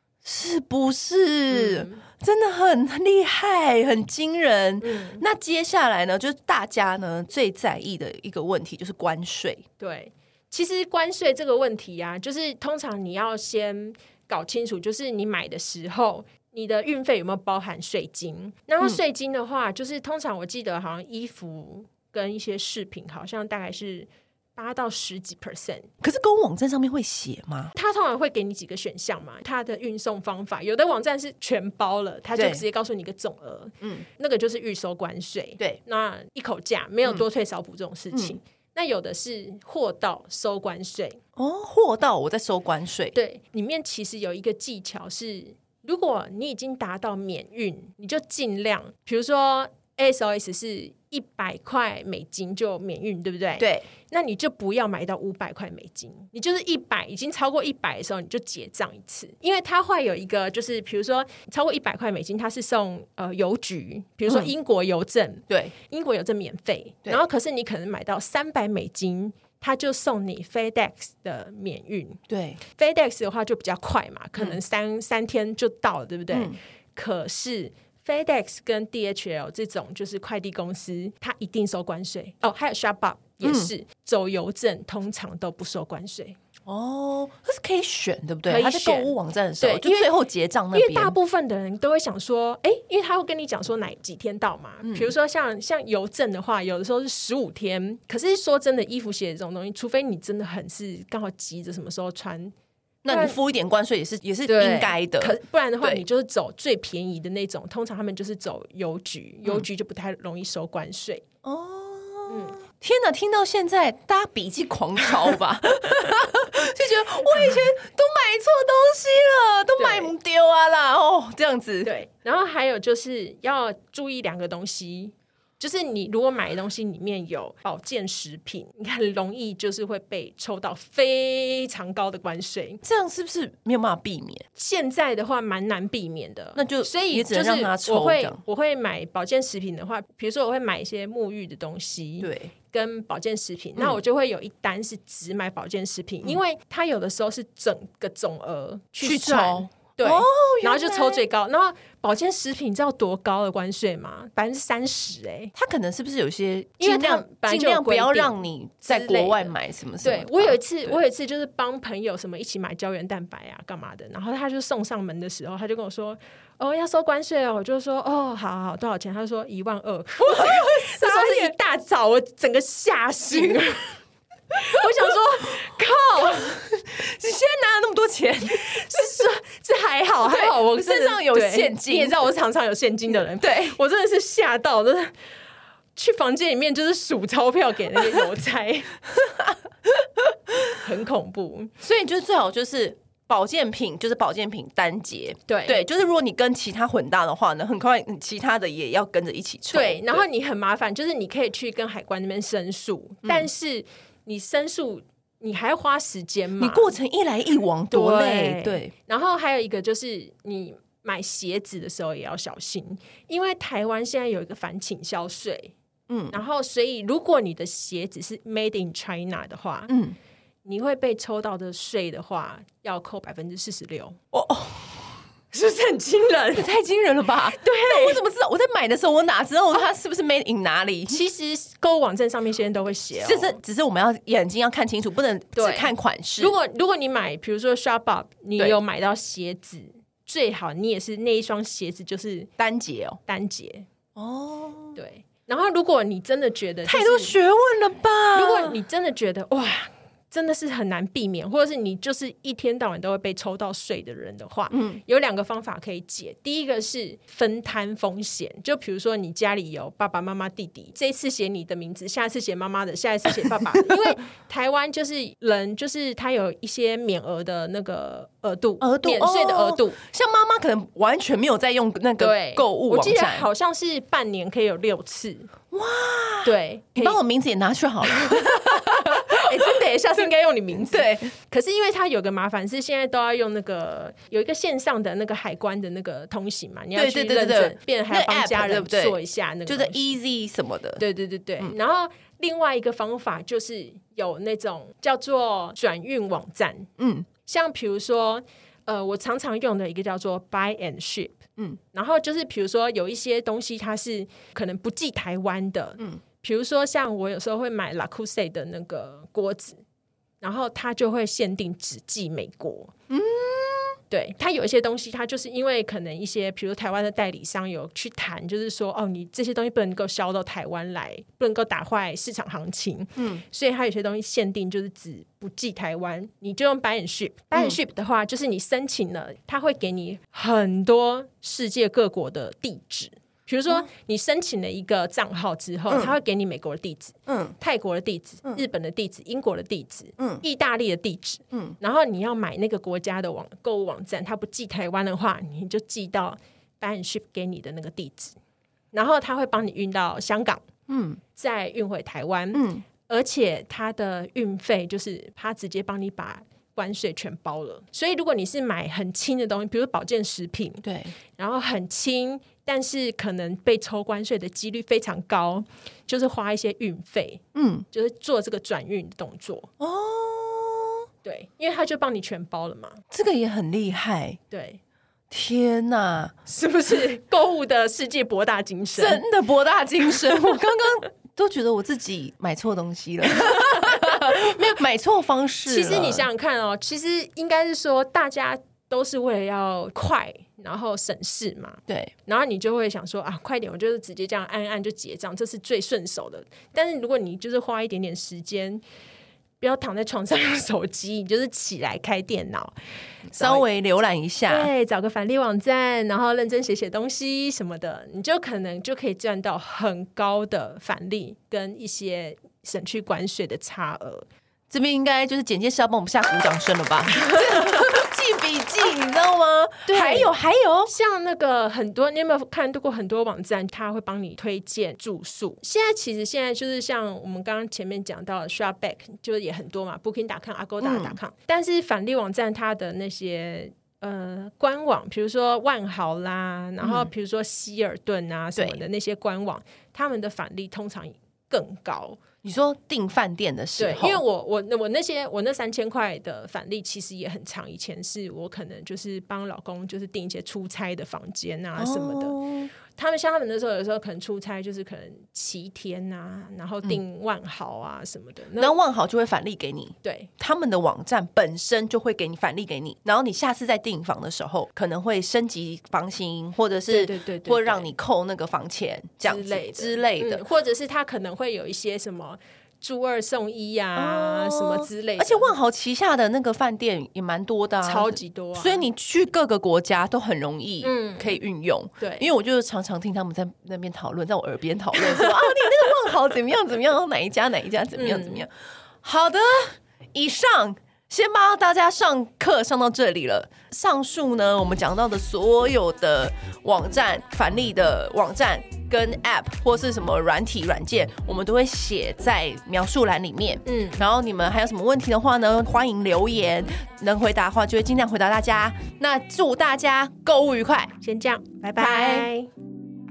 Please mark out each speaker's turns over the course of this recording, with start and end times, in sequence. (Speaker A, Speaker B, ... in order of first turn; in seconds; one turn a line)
Speaker A: 0.2-9.7
Speaker B: 1.5-2.0
Speaker B: 4.8-5.2
Speaker B: 9.8-25.9
Speaker A: 26.0-27.7
Speaker B: 27.7-41.2
Speaker A: 32.4-32.6
Speaker A: 41.4-43.2
Speaker B: 43.1-86.4
Speaker A: 53.6-53.9
Speaker A: 65.5-65.7
Speaker A: 72.3-72.6
Speaker A: 76.3-76.6
Speaker A: 83.4-83.7
Speaker A: 86.7-91.2
Speaker B: 88.5-90.1
Speaker B: 90.7-102.5
Speaker A: 94.8-95.1
Speaker A: 103.0-106.0
Speaker B: 103.1-103.4
Speaker B: 104.5-111.2
Speaker A: 111.4-121.9
Speaker B: 112.3-112.6
Speaker B: 119.8-120.1
Speaker B: 121.8-132.8
Speaker A: 132.8-134.4
Speaker B: 134.6-155.5
Speaker A: 136.6-138.4
Speaker A: 142.2-142.5
Speaker A: 149.0-151.2
Speaker A: 155.6-161.0
Speaker B: 156.8-174.0
Speaker A: 170.3-171.5
Speaker A: 173.3-173.7
Speaker B: 174.5-176.6
Speaker A: 174.6-175.1
Speaker A: 176.2-179.3
Speaker B: 178.6-185.1
Speaker A: 180.2-182.3
Speaker A: 183.4-183.8
Speaker B: 186.0-189.1
Speaker B: 190.7-191.7
Speaker A: 191.8-200.2
Speaker B: 195.5-195.8
Speaker B: 199.7-206.9
Speaker A: 206.6-208.9
Speaker B: 207.9-215.7
Speaker A: 216.1-216.4
Speaker B: 216.3-219.9
Speaker A: 219.9-220.2
Speaker B: 220.7-224.2
Speaker A: 224.3-225.1
Speaker B: 225.5-226.7
Speaker A: 226.5-231.2
Speaker B: 227.4-228.2
Speaker B: 231.1-233.6
Speaker A: 233.2-236.6
Speaker B: 235.6-242.5
Speaker A: 242.6-243.2
Speaker B: 243.3-243.9
Speaker A: 244.2-245.0
Speaker B: 244.9-247.4
Speaker A: 246.9-248.8
Speaker B: 248.3-270.0
Speaker A: 254.7-255.0
Speaker A: 268.8-273.5
Speaker B: 272.2-275.5
Speaker A: 275.7-279.5
Speaker B: 276.4-277.2
Speaker B: 278.1-290.1
Speaker A: 280.9-281.3
Speaker A: 286.9-291.0
Speaker B: 291.0-296.9
Speaker A: 297.0-297.3
Speaker B: 297.4-309.8
Speaker B: 310.4-312.9
Speaker A: 313.1-314.0
Speaker B: 314.1-348.4
Speaker A: 323.2-323.4
Speaker A: 335.9-336.2
Speaker A: 337.3-337.6
Speaker B: 348.9-350.7
Speaker A: 350.9-351.2
Speaker B: 351.4-360.8
Speaker A: 352.5-352.9
Speaker A: 360.8-361.2
Speaker B: 361.4-369.7
Speaker A: 367.6-367.9
Speaker A: 369.8-371.0
Speaker B: 371.2-373.0
Speaker A: 373.1-374.4
Speaker B: 374.5-374.8
Speaker A: 375.3-376.3
Speaker B: 376.5-379.2
Speaker A: 379.0-386.3
Speaker B: 383.3-384.8
Speaker B: 385.7-398.8
Speaker A: 391.9-392.1
Speaker B: 399.6-402.8
Speaker B: 403.3-403.6
Speaker A: 403.3-404.7
Speaker B: 404.5-414.3
Speaker A: 414.7-420.9
Speaker B: 417.2-417.8
Speaker B: 419.9-420.3
Speaker B: 420.9-442.2
Speaker A: 430.8-431.2
Speaker A: 436.8-437.1
Speaker A: 442.4-444.2
Speaker B: 443.8-458.7
Speaker A: 451.8-452.7
Speaker A: 458.6-470.4
Speaker B: 460.0-460.3
Speaker B: 466.9-467.9
Speaker B: 469.2-475.5
Speaker A: 474.0-488.5
Speaker B: 477.8-478.9
Speaker B: 480.8-481.4
Speaker B: 482.0-482.3
Speaker B: 488.0-488.4
Speaker A: 489.0-510.9
Speaker B: 503.7-504.0
Speaker B: 511.0-512.5
Speaker A: 511.8-512.3